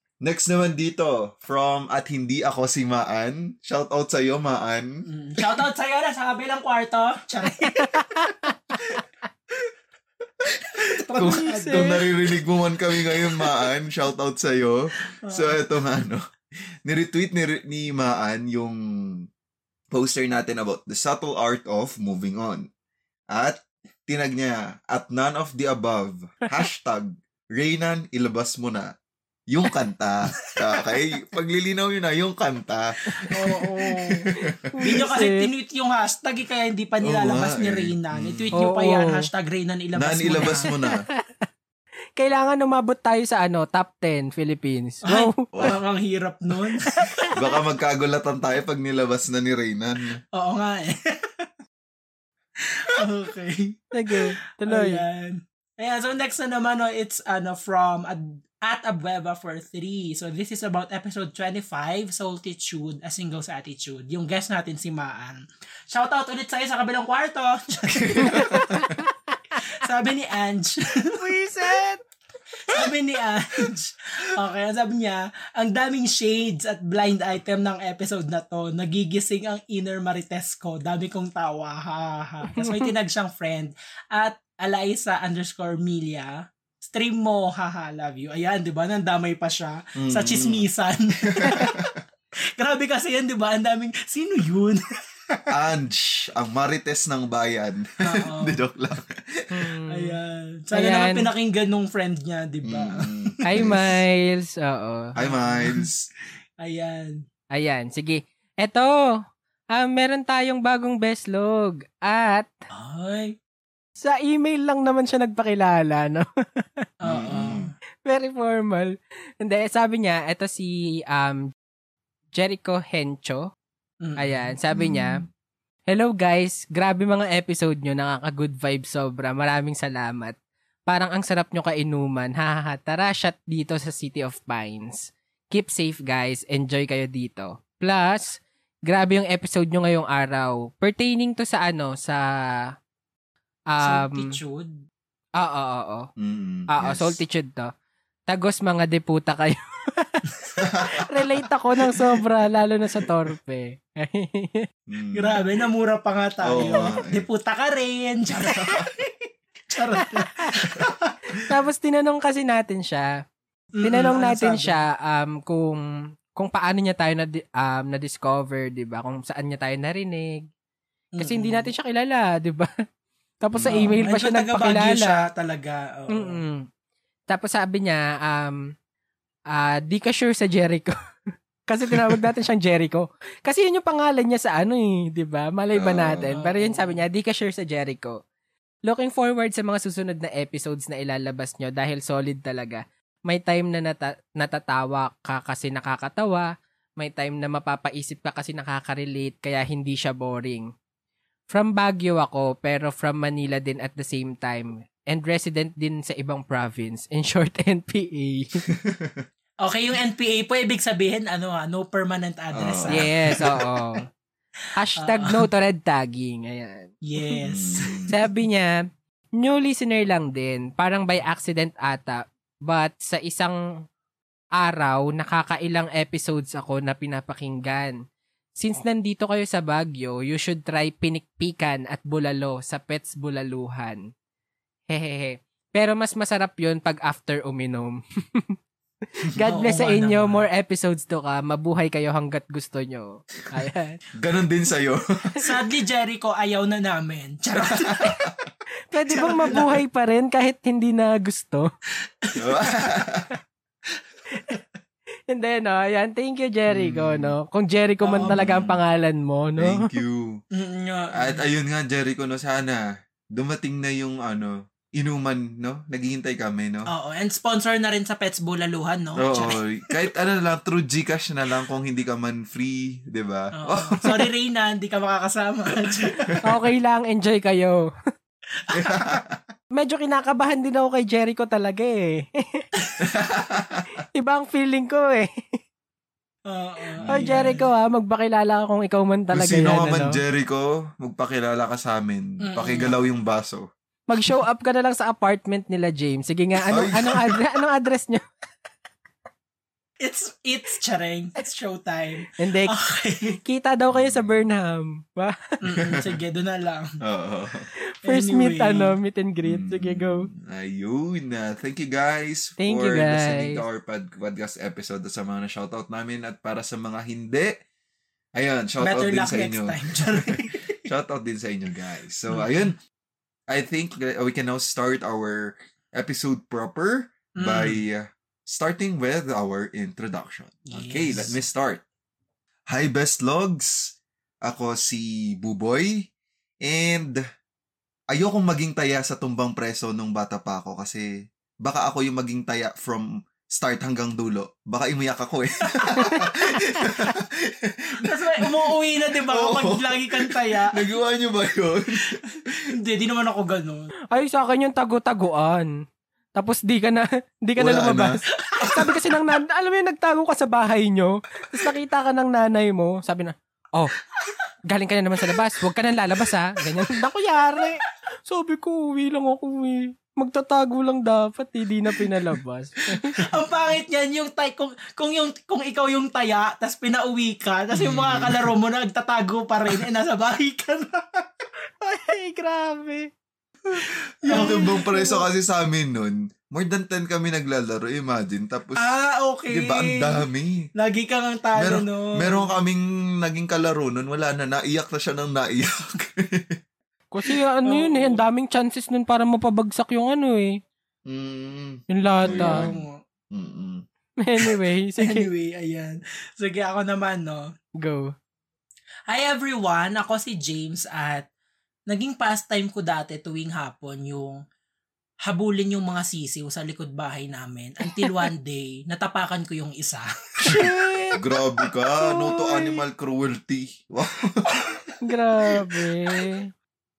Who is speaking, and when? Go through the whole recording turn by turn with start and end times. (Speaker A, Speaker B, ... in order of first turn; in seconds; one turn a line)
Speaker A: 0.2-5.6
Speaker B: 5.0-8.1
Speaker C: 7.6-8.5
Speaker B: 10.8-12.0
Speaker A: 11.1-16.3
Speaker C: 11.2-12.1
Speaker B: 13.1-13.6
Speaker B: 15.2-15.6
Speaker A: 16.8-19.3
Speaker A: 19.9-22.7
Speaker A: 23.3-28.9
Speaker A: 29.5-35.0
Speaker C: 33.1-33.4
Speaker B: 33.3-34.3
Speaker C: 34.4-35.5
Speaker B: 34.8-40.7
Speaker A: 37.0-38.5
Speaker C: 38.5-39.2
Speaker A: 40.0-41.0
Speaker C: 40.4-41.1
Speaker C: 42.2-45.5
Speaker B: 45.0-46.9
Speaker A: 45.5-45.8
Speaker C: 47.0-47.5
Speaker A: 47.3-50.2
Speaker B: 50.4-51.5
Speaker B: 52.7-68.8
Speaker C: 53.9-55.0
Speaker A: 68.0-69.0
Speaker C: 68.3-69.0
Speaker B: 69.7-71.2
Speaker C: 71.2-72.0
Speaker B: 72.7-91.8
Speaker C: 82.5-82.9
Speaker A: 90.0-90.7
Speaker A: 91.3-92.0
Speaker B: 92.6-94.8
Speaker A: 95.5-99.7
Speaker B: 98.0-98.6
Speaker C: 99.5-100.2
Speaker B: 99.9-103.8
Speaker C: 100.7-101.3
Speaker A: 102.6-104.0
Speaker C: 103.5-105.1
Speaker A: 105.2-106.1
Speaker B: 105.2-105.9
Speaker B: 106.6-107.2
Speaker C: 107.5-109.0
Speaker C: 109.7-112.5
Speaker B: 112.7-113.3
Speaker C: 114.0-116.8
Speaker B: 117.0-117.7
Speaker A: 117.1-117.7
Speaker C: 118.0-121.5
Speaker C: 122.3-123.5
Speaker B: 124.0-124.5
Speaker C: 124.2-125.2
Speaker A: 124.7-125.3
Speaker C: 125.9-130.3
Speaker C: 130.9-142.2
Speaker C: 143.7-144.3
Speaker B: 143.8-144.8
Speaker C: 145.4-146.1
Speaker A: 146.2-147.2
Speaker C: 146.7-147.7
Speaker C: 148.3-150.2
Speaker A: 150.6-151.2
Speaker C: 150.9-154.7
Speaker A: 154.9-155.4
Speaker B: 155.1-159.1
Speaker A: 156.4-157.2
Speaker A: 158.4-158.9
Speaker B: 159.7-161.1
Speaker C: 160.2-160.6
Speaker C: 161.3-163.1
Speaker B: 163.8-164.8
Speaker C: 163.8-165.8
Speaker C: 166.3-170.4
Speaker B: 171.2-171.7
Speaker C: 171.2-172.7
Speaker C: 173.4-175.2
Speaker A: 173.5-173.9
Speaker B: 173.7-176.4
Speaker C: 176.1-176.7
Speaker C: 177.3-178.7
Speaker C: 179.5-180.9
Speaker C: 181.7-188.2
Speaker A: 181.9-182.2
Speaker A: 185.7-186.3
Speaker B: 186.3-187.0
Speaker C: 188.8-200.7
Speaker C: 201.5-208.6
Speaker A: 208.7-209.2
Speaker B: 209.6-213.4
Speaker A: 212.5-213.7
Speaker C: 212.9-214.0
Speaker C: 214.8-216.9
Speaker B: 215.0-215.4
Speaker B: 217.0-218.1
Speaker A: 217.4-218.1
Speaker C: 218.1-218.7
Speaker C: 219.4-223.6
Speaker C: 224.6-228.0
Speaker C: 228.6-234.0
Speaker C: 234.9-238.5
Speaker C: 239.2-244.0
Speaker B: 239.4-240.4
Speaker A: 243.6-245.0
Speaker B: 245.4-248.2
Speaker A: 247.7-248.5
Speaker C: 248.9-251.7
Speaker B: 249.1-249.8
Speaker A: 249.3-249.6
Speaker B: 252.2-252.7
Speaker A: 252.3-253.3
Speaker B: 254.3-254.6
Speaker C: 255.3-259.8
Speaker A: 256.7-257.3
Speaker B: 258.0-258.4
Speaker A: 258.2-258.8
Speaker A: 259.6-260.4
Speaker B: 260.5-261.4
Speaker A: 261.1-266.9
Speaker B: 266.9-269.6
Speaker A: 269.2-274.3
Speaker B: 273.6-276.4
Speaker A: 276.3-276.6
Speaker C: 276.4-277.9
Speaker B: 278.7-279.2
Speaker A: 278.7-279.4
Speaker C: 279.8-282.7
Speaker A: 283.0-284.0
Speaker C: 284.1-285.3
Speaker B: 286.5-287.7
Speaker A: 287.0-287.3
Speaker C: 287.1-290.2
Speaker A: 289.3-293.7
Speaker B: 292.4-293.0
Speaker C: 294.1-298.2
Speaker A: 296.7-297.4
Speaker B: 300.0-303.4
Speaker C: 302.4-302.8
Speaker C: 303.4-305.4
Speaker A: 303.9-304.4
Speaker B: 305.6-306.9
Speaker A: 307.0-307.7
Speaker C: 308.0-310.3
Speaker B: 308.0-308.9
Speaker A: 309.4-317.6
Speaker C: 312.6-313.6
Speaker A: 318.4-322.8
Speaker B: 318.8-320.8
Speaker B: 322.3-322.6
Speaker A: 323.5-331.8
Speaker B: 327.4-327.8
Speaker B: 330.7-331.4
Speaker A: 332.7-336.1
Speaker A: 336.6-337.2
Speaker A: 338.1-341.1
Speaker A: 341.6-352.2
Speaker B: 345.7-346.2
Speaker B: 348.0-350.8
Speaker B: 352.7-353.9
Speaker C: 354.1-355.7
Speaker C: 356.4-363.9
Speaker A: 357.6-359.0
Speaker B: 358.4-358.9
Speaker C: 364.7-373.2
Speaker B: 366.8-367.0
Speaker B: 373.0-381.2
Speaker A: 377.7-378.5
Speaker C: 381.8-383.1
Speaker B: 383.7-385.1
Speaker A: 384.2-388.9
Speaker C: 384.4-384.8
Speaker B: 388.8-390.2
Speaker A: 389.5-390.6
Speaker B: 390.8-392.5
Speaker A: 391.6-396.6
Speaker C: 397.1-400.6
Speaker B: 397.6-398.2
Speaker A: 401.1-403.8
Speaker C: 401.9-402.6
Speaker B: 402.2-402.9
Speaker C: 404.2-405.3
Speaker B: 405.0-407.5
Speaker C: 407.8-408.1
Speaker B: 409.1-411.3
Speaker B: 411.9-414.4
Speaker B: 415.2-420.8
Speaker C: 418.0-418.3
Speaker A: 420.4-424.6
Speaker C: 420.4-421.2
Speaker C: 422.0-422.8
Speaker C: 425.0-426.5
Speaker B: 425.5-426.2